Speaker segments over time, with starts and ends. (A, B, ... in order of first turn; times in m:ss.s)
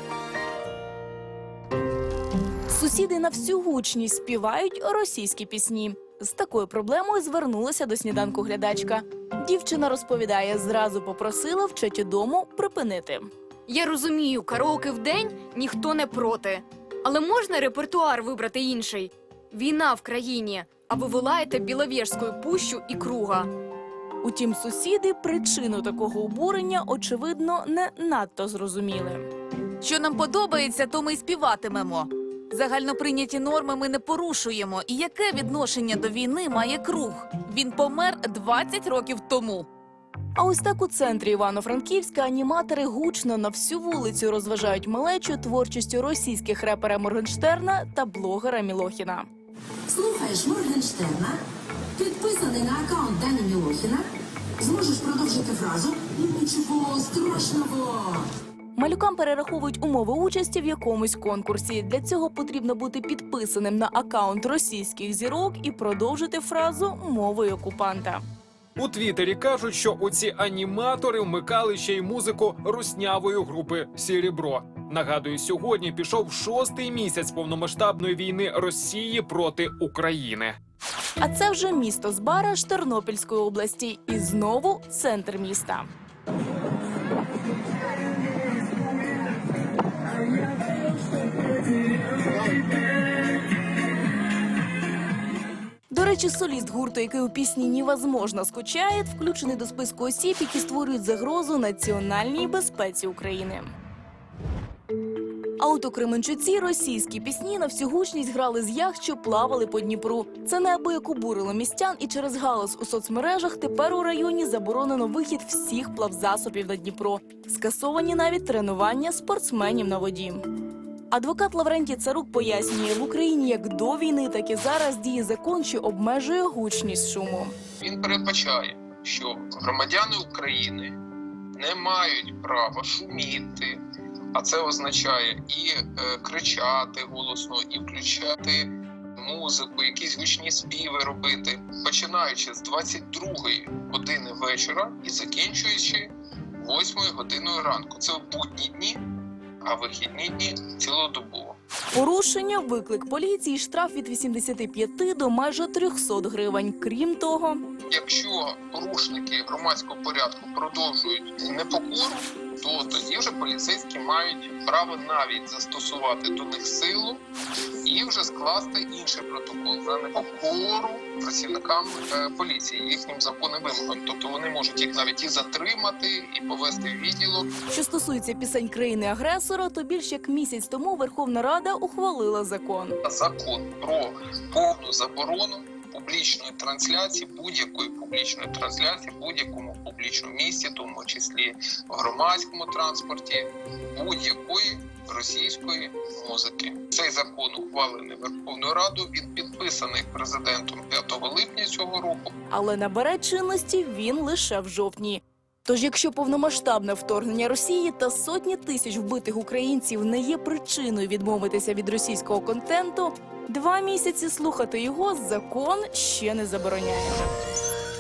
0:02.7-0:13.3 A
0:13.7-0:23.5 B
0:24.2-0:29.3 A
0:29.8-0:39.7 C
0:40.4-0:49.3 A
0:49.9-0:51.4 D
0:52.0-0:54.1 D
0:54.6-0:58.3 D
0:58.8-1:08.2 A
1:08.8-1:20.6 E
1:21.2-1:25.9 A
1:35.9-1:43.7 A
1:45.6-2:00.4 A
2:01.1-2:07.5 A
2:07.8-2:11.0 F
2:11.6-2:13.8 F
2:14.4-2:29.0 F
2:29.6-2:31.6 F
2:31.9-2:37.6 A
2:37.9-2:47.2 F
2:47.8-2:57.5 F
2:57.7-3:03.0 A
3:03.0-3:22.3 F
3:22.5-3:37.2 A